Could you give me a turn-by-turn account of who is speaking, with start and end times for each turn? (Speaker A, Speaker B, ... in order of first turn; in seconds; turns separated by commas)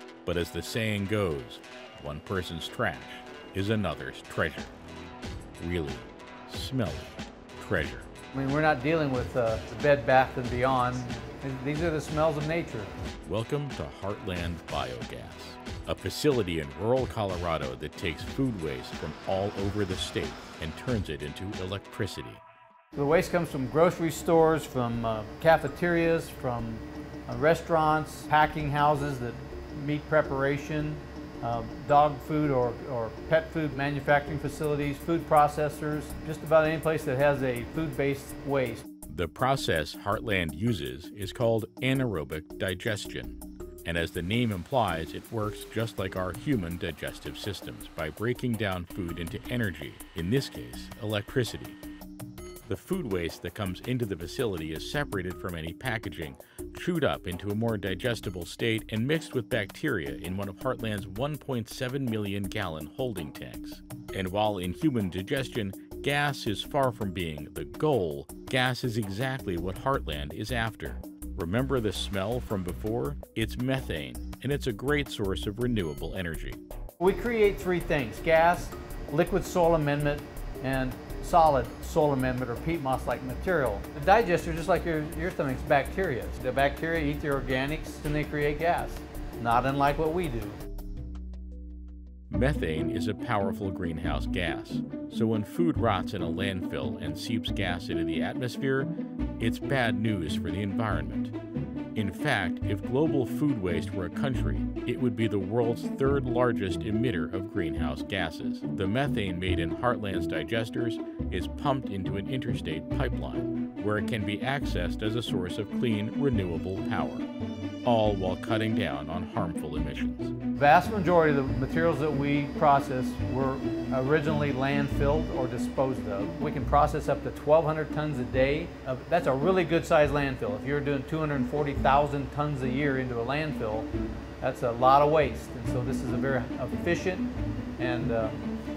Speaker A: 0.2-4.7, Speaker A: 5.6-8.1, Speaker B: 8.3-12.9, Speaker A: 13.2-22.4, Speaker B: 22.9-38.8, Speaker A: 39.1-51.8, Speaker A: 52.7-76.6, Speaker B: 77.0-90.6, Speaker A: 92.3-101.3, Speaker A: 101.9-117.3, Speaker A: 117.8-120.3, Speaker B: 120.5-138.5